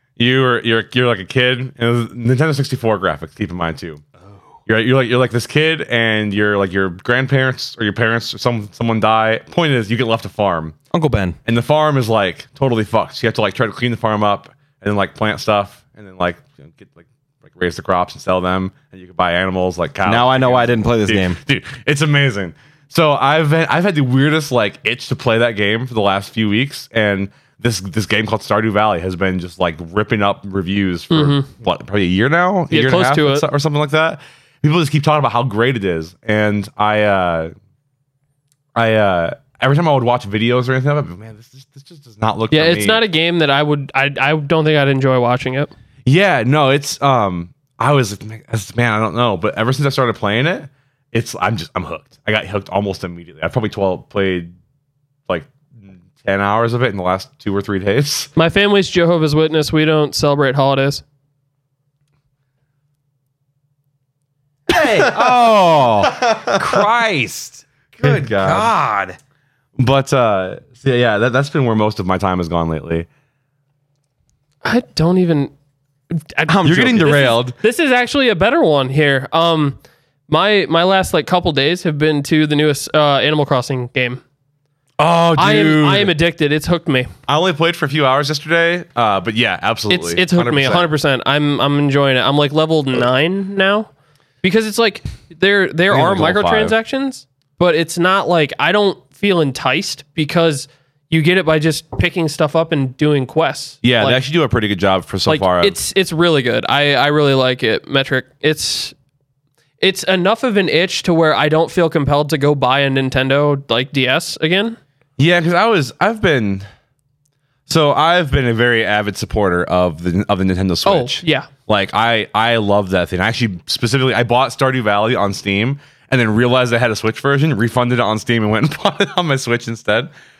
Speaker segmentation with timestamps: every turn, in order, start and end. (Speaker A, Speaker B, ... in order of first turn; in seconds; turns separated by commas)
Speaker A: 0.2-4.0, Speaker A: 4.7-10.8, Speaker B: 10.9-11.4, Speaker A: 11.4-37.5, Speaker B: 20.1-21.4, Speaker C: 31.1-31.5, Speaker C: 32.7-33.5, Speaker A: 38.7-43.0, Speaker C: 42.5-45.7, Speaker A: 46.0-54.5, Speaker A: 55.3-58.3, Speaker C: 58.4-61.0, Speaker B: 64.7-69.2, Speaker A: 64.7-65.4, Speaker A: 66.0-66.8, Speaker A: 68.0-68.7, Speaker A: 69.8-73.1, Speaker C: 74.6-75.5, Speaker C: 76.1-84.2, Speaker B: 76.5-77.1, Speaker A: 76.6-77.6, Speaker A: 85.0-86.1, Speaker C: 85.3-87.1, Speaker A: 87.3-90.9, Speaker C: 89.9-93.9, Speaker C: 94.4-104.2, Speaker A: 95.9-96.7, Speaker A: 103.8-105.8, Speaker C: 105.3-108.9, Speaker C: 109.8-114.8, Speaker A: 115.2-116.7, Speaker A: 117.7-130.1, Speaker C: 120.8-121.5